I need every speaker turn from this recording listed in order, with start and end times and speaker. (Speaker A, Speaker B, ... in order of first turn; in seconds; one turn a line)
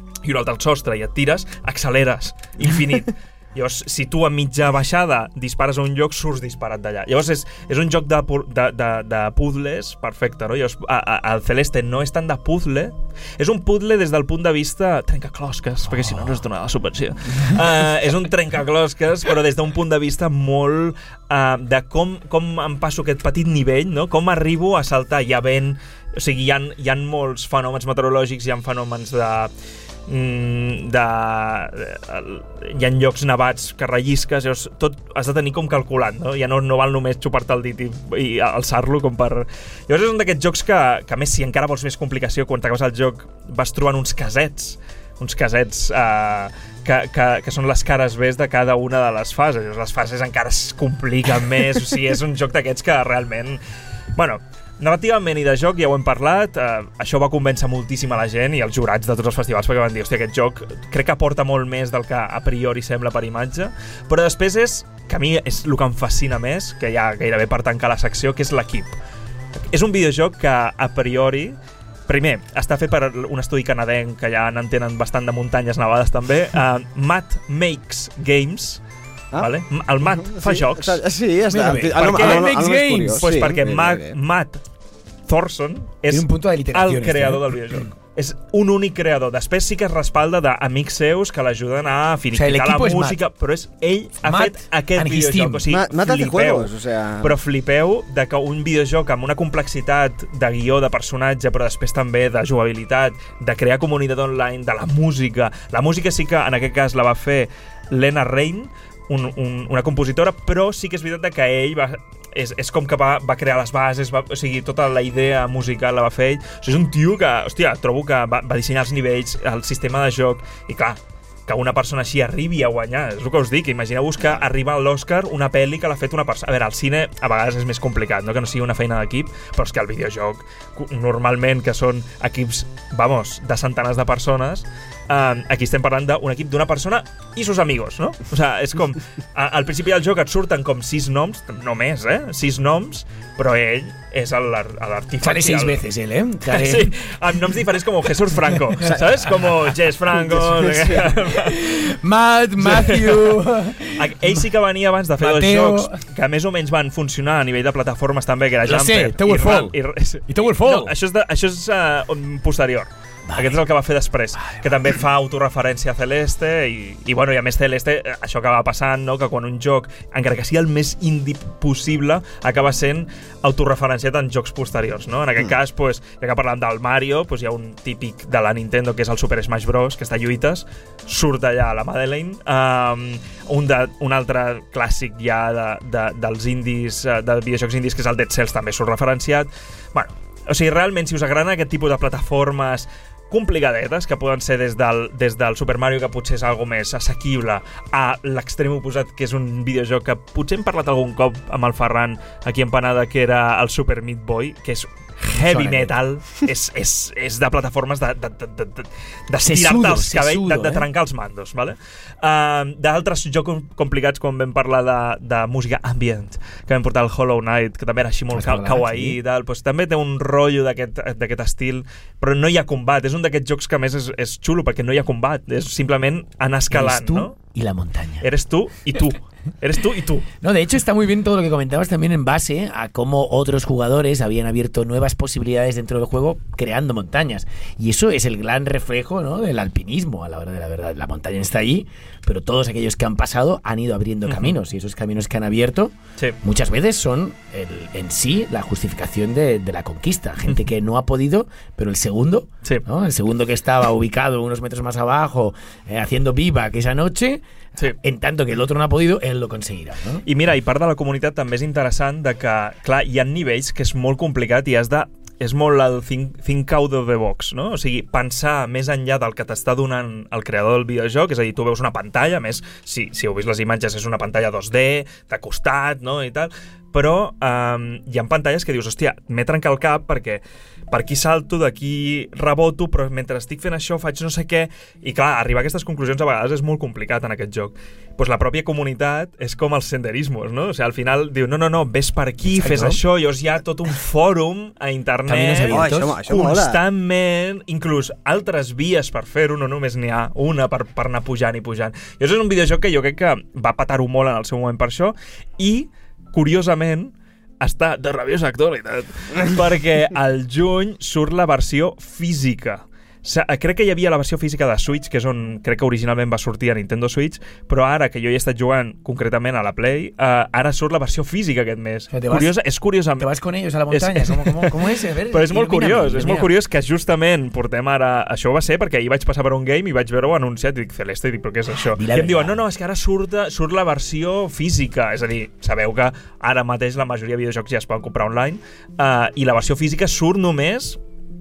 Speaker A: 0.2-29.5
Speaker B: 15.8-16.4
Speaker A: 30.1-53.6
Speaker A: 54.1-69.0
Speaker A: 69.7-71.5
Speaker A: 72.1-78.8
Speaker C: 79.3-84.2
Speaker A: 79.4-81.0
Speaker B: 81.5-83.3
Speaker A: 82.0-82.4
Speaker A: 83.2-84.6
Speaker A: 85.3-145.8
Speaker B: 86.1-87.4
Speaker B: 92.3-93.2
Speaker B: 94.2-95.6
Speaker C: 95.7-97.3
Speaker B: 145.2-146.9
Speaker A: 146.5-151.6
Speaker C: 150.3-151.0
Speaker B: 151.0-154.4
Speaker A: 152.6-153.4
Speaker A: 153.9-227.3
Speaker B: 155.2-156.0
Speaker B: 158.7-159.8
Speaker B: 160.3-160.9
Speaker B: 163.3-163.6
Speaker B: 164.3-164.6
Speaker B: 205.2-205.9
Speaker B: 209.4-210.9
Speaker B: 218.3-219.2
Speaker B: 226.7-228.3
Speaker A: 228.2-230.2
Speaker B: 230.4-260.2
Speaker A: 244.3-244.5
Speaker A: 260.2-323.3
Speaker B: 292.5-293.0
Speaker B: 295.3-296.2
Speaker C: 295.7-296.8
Speaker B: 322.1-322.5
Speaker B: 323.2-326.5
Speaker A: 323.9-341.0
Speaker B: 332.0-332.6